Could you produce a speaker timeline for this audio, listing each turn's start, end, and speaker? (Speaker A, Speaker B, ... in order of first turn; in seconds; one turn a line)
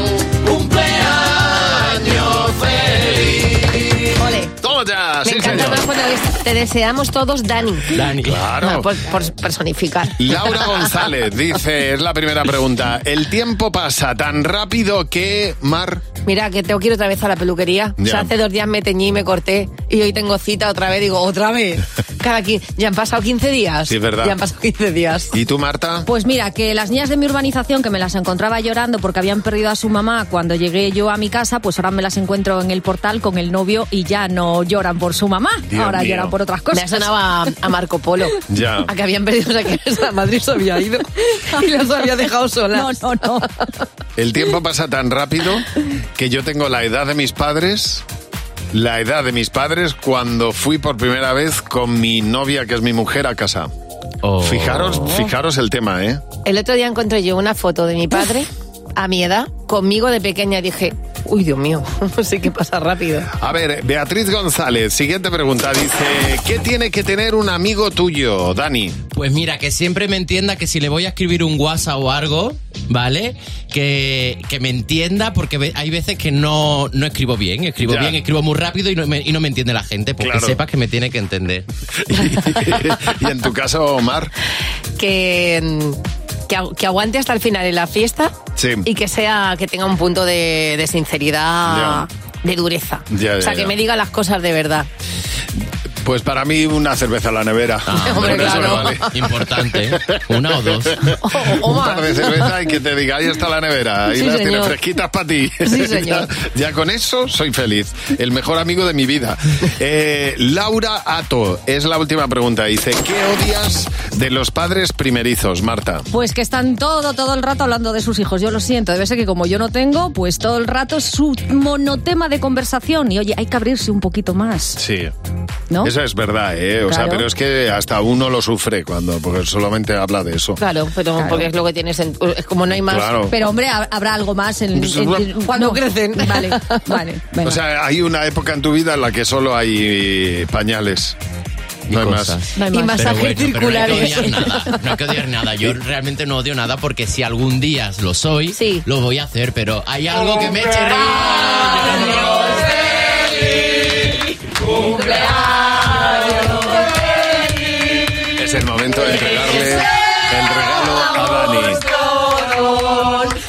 Speaker A: 0.3-3.9
Speaker B: 4.1-4.5
Speaker C: 4.6-5.8
Speaker B: 5.2-11.1
Speaker A: 7.9-8.5
Speaker C: 8.2-8.9
Speaker C: 10.2-16.0
Speaker B: 16.2-25.4
Speaker C: 18.0-18.3
Speaker C: 23.9-24.4
Speaker C: 25.3-26.1
Speaker D: 26.1-37.1
Speaker C: 35.7-36.4
Speaker B: 36.7-43.5
Speaker C: 38.5-38.9
Speaker D: 42.7-43.5
Speaker C: 44.1-48.0
Speaker C: 48.7-53.7
Speaker A: 54.2-55.3
Speaker C: 54.4-56.2
Speaker B: 56.4-63.3
Speaker C: 63.4-69.0
Speaker A: 69.1-81.7
Speaker C: 77.8-78.2
Speaker C: 80.2-80.6
Speaker C: 82.0-84.3
Speaker B: 85.0-94.9
Speaker C: 88.5-88.9
Speaker C: 91.6-92.1
Speaker C: 93.1-93.8
Speaker C: 96.0-100.2
Speaker A: 97.9-101.2
Speaker B: 98.0-99.1
Speaker C: 100.8-116.1
Speaker B: 101.2-102.6
Speaker B: 104.1-104.8
Speaker B: 105.6-106.3
Speaker D: 116.1-124.8
Speaker C: 124.8-125.1
Speaker C: 125.8-130.6
Speaker D: 126.9-127.3
Speaker B: 130.6-133.2
Speaker D: 131.2-131.5
Speaker C: 132.8-133.3
Speaker D: 133.3-137.6
Speaker C: 134.7-135.3
Speaker B: 135.2-137.0
Speaker C: 137.4-141.2
Speaker C: 141.9-142.4
Speaker A: 141.9-152.8
Speaker D: 142.5-143.0
Speaker B: 142.7-144.8
Speaker B: 148.5-148.8
Speaker B: 154.7-156.5
Speaker D: 154.9-156.7
Speaker C: 158.3-161.8
Speaker D: 160.5-163.2